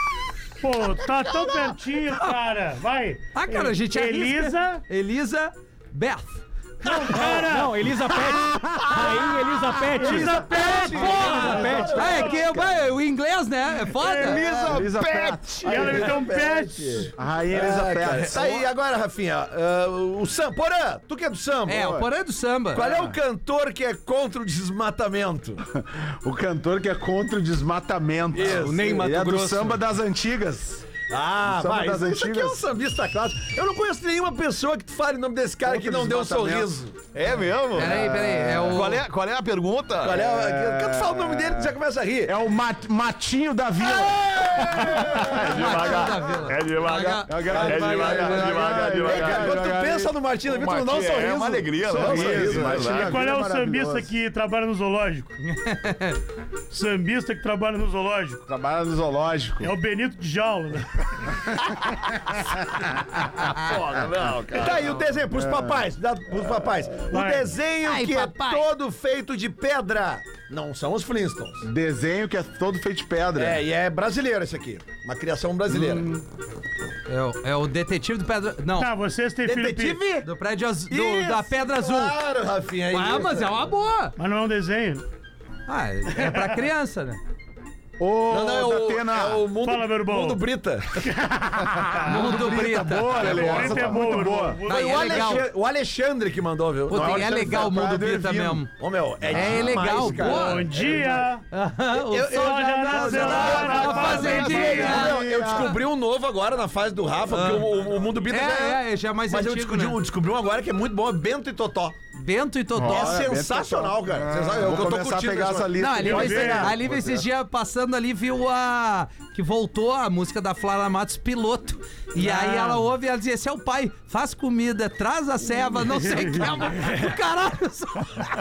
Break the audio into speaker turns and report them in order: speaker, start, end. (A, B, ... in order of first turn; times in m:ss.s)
0:00.6-0:04.8 A
0:03.3-0:07.0 B
0:06.8-0:07.8 A
0:07.0-0:12.3 C
0:10.0-0:12.4 A
0:10.0-0:12.8 D
0:10.1-0:14.7 B
0:14.0-0:14.6 A
0:14.1-0:16.1 E
0:14.4-0:14.8 D
0:14.6-0:16.0 F
0:15.6-0:17.1 A
0:15.6-0:22.0 D
0:17.1-0:18.7 F
0:21.7-0:22.8 B
0:21.7-0:22.1 F
0:22.7-0:25.6 D
0:22.8-0:23.2 F
0:25.8-0:30.8 F
0:28.3-0:29.0 D
0:28.5-0:29.8 C
0:31.1-0:36.9 D
0:31.4-0:32.6 F
0:35.6-0:36.8 F
0:37.1-0:40.2 E
0:37.8-0:39.0 B
0:37.8-0:38.8 F
0:40.0-0:42.3 D
0:40.1-0:45.7 F
0:44.6-0:49.6 E
0:44.6-0:45.3 D
0:45.4-0:48.3 B
0:47.3-0:50.2 F
0:47.5-0:53.1 D
0:50.4-0:53.3 E
0:51.9-0:54.1 F
0:52.9-0:55.3 A
0:55.5-0:56.2 B
0:56.7-0:58.4 A
0:58.5-0:59.7 F
0:59.6-1:01.0 A
1:03.4-1:03.8 B
1:03.5-1:05.1 E
1:04.5-1:11.7 D
1:05.3-1:05.9 F
1:07.1-1:07.5 A
1:07.8-1:08.7 B
1:11.6-1:13.6 F
1:13.4-1:16.2 D
1:17.1-1:18.9 B
1:18.8-1:20.0 A
1:19.4-1:20.3 D
1:20.2-1:22.2 B
1:20.9-1:23.6 D
1:22.9-1:24.2 B
1:24.2-1:25.0 A
1:25.7-1:27.2 B
1:26.2-1:26.6 A
1:28.0-1:29.4 F
1:28.3-1:31.0 D
1:29.6-1:30.4 A
1:31.1-1:31.4 A
1:31.6-1:34.6 F
1:32.0-1:33.9 B
1:33.2-1:35.2 A
1:34.6-1:35.5 B
1:34.7-1:37.7 D
1:36.9-1:38.7 F
1:36.9-1:38.7 B
1:38.8-1:41.3 D
1:39.3-1:40.8 B
1:39.3-1:40.0 F
1:40.0-1:41.4 A
1:41.5-1:45.8 B
1:41.9-1:52.0 D
1:42.3-1:45.2 A
1:43.1-1:45.8 F
1:47.3-1:47.7 B
1:48.3-1:50.0 B
1:52.2-1:53.2 B
1:52.7-1:57.2 F
1:52.8-1:55.8 D
1:55.8-2:08.3 B
1:56.0-1:56.7 A
2:02.2-2:02.8 A
2:05.8-2:07.0 A